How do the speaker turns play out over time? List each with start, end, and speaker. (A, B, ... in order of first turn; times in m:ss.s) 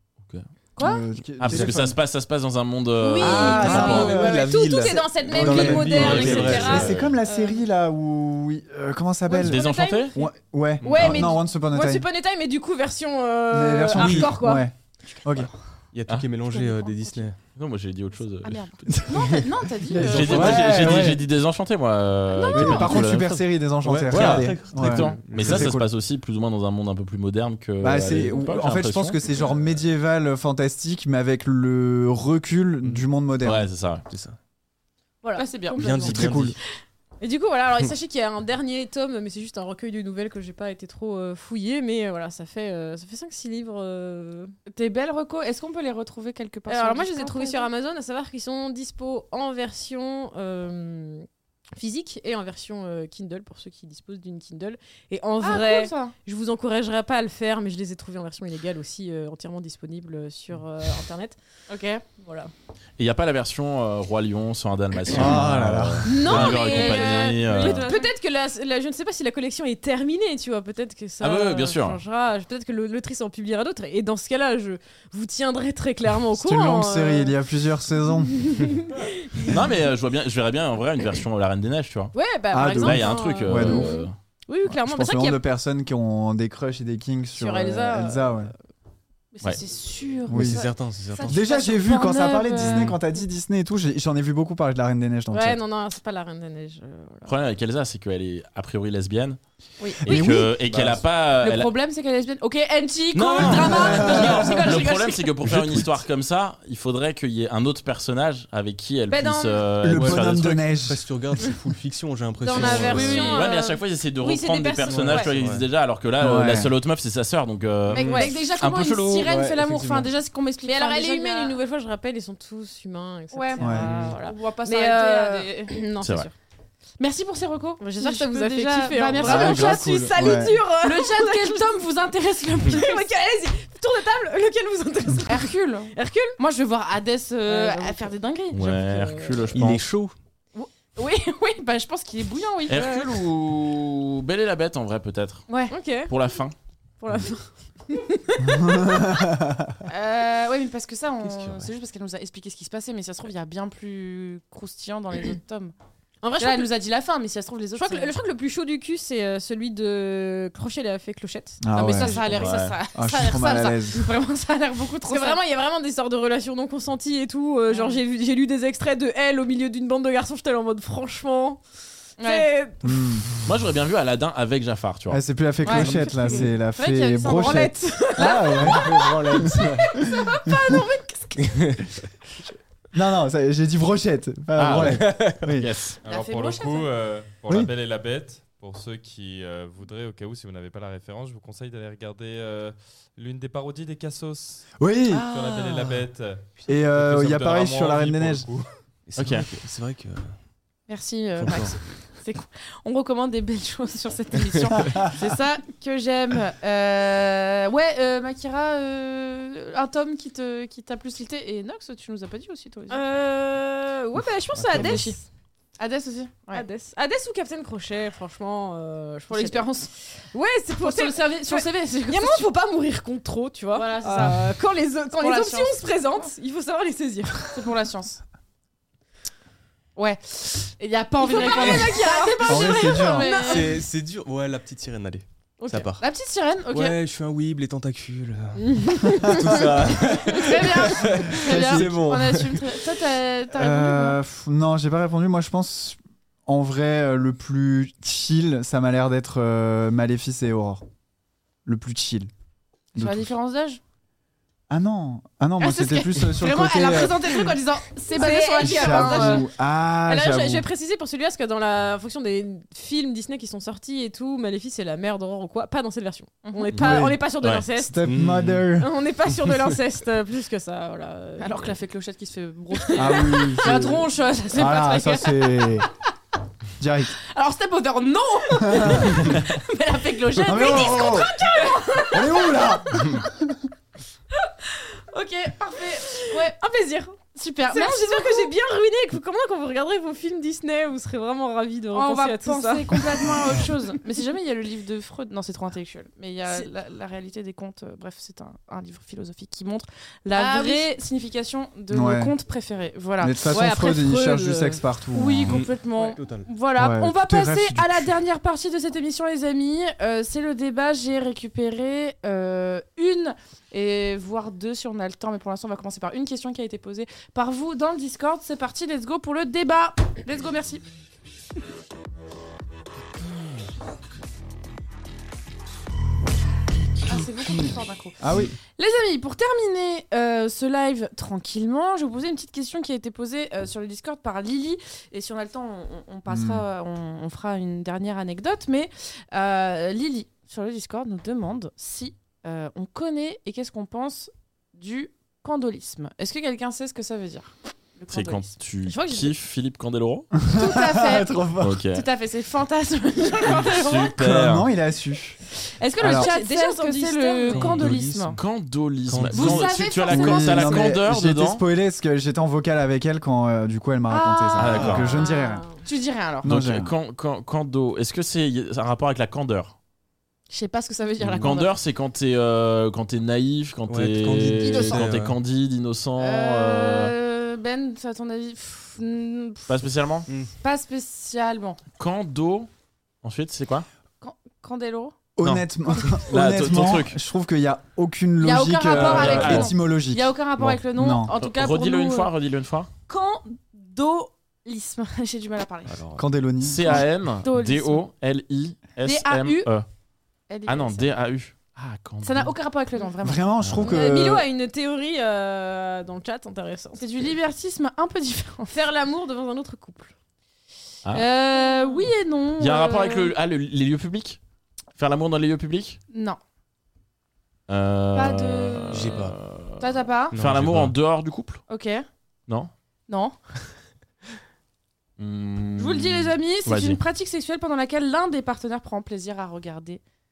0:00.8-0:01.0 A
0:00.8-0:02.0 B
0:01.4-0:04.2 C
0:01.5-0:01.9 D
0:03.0-0:07.6 E
0:03.2-0:12.0 B
0:03.6-0:06.9 D
0:05.9-0:07.2 C
0:09.3-0:10.3 E
0:09.4-0:10.1 C
0:10.8-0:11.2 D
0:10.8-0:14.7 E
0:13.5-0:15.5 B
0:13.9-0:14.3 D
0:15.9-0:17.4 D
0:16.4-0:17.2 A
0:17.6-0:19.0 C
0:18.4-0:20.7 A
0:18.9-0:21.2 B
0:20.0-0:23.4 C
0:20.3-0:20.7 D
0:22.3-0:22.8 E
0:22.4-0:22.9 A
0:22.5-0:25.9 B
0:23.8-0:25.8 D
0:24.1-0:29.2 C
0:27.8-0:33.7 B
0:32.8-0:33.1 D
0:33.4-0:34.0 C
0:34.1-0:34.4 D
0:35.2-0:36.5 E
0:35.4-0:35.8 A
0:35.8-0:36.6 D
0:36.0-0:36.6 B
0:37.2-0:44.5 E
0:44.7-0:47.7 A
0:46.7-1:01.4 E
0:55.4-0:56.1 A
1:01.7-1:02.0 A
1:02.2-1:02.5 E
1:03.0-1:07.9 C
1:05.1-1:06.5 B
1:06.0-1:17.3 E
1:06.5-1:08.1 A
1:11.2-1:12.0 C
1:16.4-1:18.7 B
1:18.3-1:19.7 E
1:19.4-1:22.1 C
1:22.1-1:25.4 E
1:22.5-1:24.0 B
1:22.8-1:24.1 C
1:24.6-1:28.5 B
1:27.4-1:28.5 E
1:29.3-1:33.0 A
1:30.3-1:30.6 B
1:30.3-1:31.4 D
1:31.2-1:35.6 B
1:32.7-1:32.9 D
1:35.3-1:37.3 E
1:37.2-1:39.4 C
1:39.8-1:40.4 A
1:40.0-1:41.7 C
1:40.0-1:40.5 B
1:40.7-1:41.0 D
1:41.4-1:45.3 A
1:43.1-1:50.6 C
1:43.6-1:44.6 B
1:45.4-1:45.9 D
1:49.1-1:49.6 E
1:49.8-1:51.0 B
1:49.9-1:53.5 D
1:52.4-1:55.3 E
1:52.5-1:52.9 A
1:52.6-1:59.4 C
1:54.8-1:55.6 D
1:56.2-1:56.7 B
1:57.9-1:58.2 D
1:57.9-2:01.6 A
1:58.0-1:58.3 E
1:59.2-2:00.0 B
2:00.6-2:06.3 E
2:03.3-2:05.8 A
2:03.6-2:03.9 B
2:03.8-2:04.1 D
2:06.0-2:06.3 C
2:07.0-2:13.0 A
2:07.8-2:11.6 E
2:09.2-2:10.2 D
2:10.1-2:10.6 B
2:12.6-2:16.4 E
2:15.2-2:18.6 A
2:17.4-2:19.6 E
2:18.5-2:19.8 C
2:19.5-2:20.1 D
2:20.5-2:23.2 A
2:22.7-2:25.5 C
2:25.5-2:25.7 A
2:25.7-2:26.1 E
2:26.1-2:26.5 C
2:27.0-2:29.2 E
2:28.4-2:29.7 B
2:29.8-2:35.7 A
2:31.2-2:31.7 D
2:36.2-2:36.7 E
2:36.4-2:38.1 A
2:37.8-2:42.5 E
2:41.6-2:42.3 B
2:41.7-2:45.4 A
2:42.4-2:42.8 C
2:42.9-2:44.1 B
2:45.1-2:51.6 E
2:47.7-2:48.0 A
2:52.2-2:52.5 A
2:52.2-2:53.1 E
2:52.8-2:53.2 B
2:53.4-2:55.3 C
2:55.1-2:59.6 B
2:55.6-2:58.7 A
2:55.7-2:56.4 D
2:55.9-2:56.4 E
2:57.7-3:01.2 E
2:58.7-2:59.8 D
3:00.1-3:01.3 A
3:00.2-3:00.8 B
3:01.4-3:01.9 D
3:02.9-3:05.7 B
3:04.6-3:05.5 D
3:04.6-3:06.0 C
3:06.0-3:06.9 A
3:06.0-3:18.7 F
3:14.8-3:15.7 B
3:15.1-3:15.8 A
3:16.7-3:18.5 B
3:19.0-3:20.4 D
3:19.2-3:19.5 C
3:20.9-3:33.0 A
3:21.4-3:21.8 D
3:32.9-3:35.2 E
3:34.5-3:35.1 D
3:34.7-3:35.2 A
3:35.8-3:36.6 A
3:36.5-3:47.7 E
3:39.3-3:39.9 A
3:40.8-3:42.5 A
3:43.7-3:44.4 A
3:45.2-3:45.8 A
3:47.5-3:48.2 A
3:50.0-3:53.8 A
3:51.2-3:53.8 E
3:51.4-3:52.0 D
3:52.4-3:53.3 B
3:53.4-3:56.0 D
3:55.6-3:55.9 E
3:56.0-3:57.0 A
3:56.7-4:02.8 D
3:58.6-3:59.7 E
3:59.2-3:59.6 B
4:00.3-4:04.2 A
4:01.1-4:02.0 B
4:03.5-4:10.8 B
4:11.6-4:12.3 B
4:12.9-4:13.3 B
4:12.9-4:13.8 A
4:14.7-4:17.5 B
4:15.6-4:19.4 A
4:18.1-4:19.5 E
4:18.6-4:20.7 B
4:20.1-4:28.1 E
4:26.4-4:26.8 A
4:26.7-4:27.2 B
4:27.4-4:27.7 C
4:27.7-4:28.9 B
4:28.0-4:28.7 D
4:28.7-4:31.7 E
4:31.4-4:35.8 A
4:32.8-4:33.6 E
4:32.9-4:35.9 B
4:36.8-4:37.1 B
4:37.3-4:42.5 A
4:38.6-4:39.3 B
4:40.4-4:43.0 E
4:40.4-4:41.3 B
4:42.1-4:43.6 B
4:44.5-4:44.8 E
4:45.1-4:46.6 A
4:46.1-4:47.2 E
4:47.3-4:48.5 A
4:47.7-4:53.6 E
4:51.9-5:03.5 A
5:00.3-5:01.0 E
5:01.9-5:02.3 B
5:03.2-5:05.6 B
5:03.4-5:04.8 E
5:05.1-5:20.8 A
5:05.4-5:06.5 D
5:06.7-5:08.1 B
5:27.0-5:28.2 A
5:27.1-5:28.6 B
5:28.8-5:48.5 A
5:36.3-5:36.6 B
5:48.1-5:50.3 C
5:48.8-5:49.3 E
5:50.4-5:51.8 B
5:50.5-5:54.1 A
5:51.6-5:52.0 C
5:53.4-5:54.7 C
5:54.2-5:55.4 B
5:55.8-5:58.4 A
5:56.0-5:56.3 B
5:56.0-5:57.9 E
5:57.5-5:58.4 D
5:58.3-6:01.6 C
5:59.1-5:59.8 D
5:59.3-6:00.9 A
6:00.1-6:05.7 B
6:04.1-6:05.0 A
6:04.6-6:05.1 C
6:04.7-6:05.1 D
6:05.0-6:05.8 E
6:05.8-6:06.4 A
6:06.4-6:06.9 B
6:06.4-6:09.7 C
6:10.5-6:11.7 A
6:11.2-6:17.1 C
6:13.9-6:15.4 D
6:14.6-6:15.1 A
6:16.2-6:19.8 A
6:19.7-6:20.3 C
6:20.3-6:20.5 D
6:20.6-6:21.8 A
6:22.0-6:22.7 C
6:23.2-6:23.9 C
6:24.2-6:25.1 A
6:25.4-6:31.3 B
6:26.2-6:27.2 C
6:28.4-6:32.3 A
6:28.9-6:29.7 C
6:31.3-6:32.9 C
6:33.1-6:36.0 A
6:35.9-6:36.2 D
6:36.2-6:37.0 B
6:36.6-6:39.8 C
6:37.0-6:38.1 A
6:39.0-6:39.7 A
6:40.5-6:41.1 A
6:40.6-6:42.5 C
6:42.2-6:43.5 A
6:43.2-6:44.5 B
6:43.8-6:47.0 E
6:47.0-6:48.8 A
6:48.7-6:50.1 E
6:51.1-6:53.3 A
6:52.6-6:54.4 C
6:55.0-6:56.0 C
6:56.1-6:56.4 A
6:57.7-7:01.6 C
6:58.1-6:59.2 A
6:58.9-6:59.4 D
6:59.8-7:00.4 A
7:00.3-7:00.9 D
7:01.7-7:02.0 A
7:03.1-7:03.4 A
7:05.2-7:07.0 C
7:05.8-7:10.0 A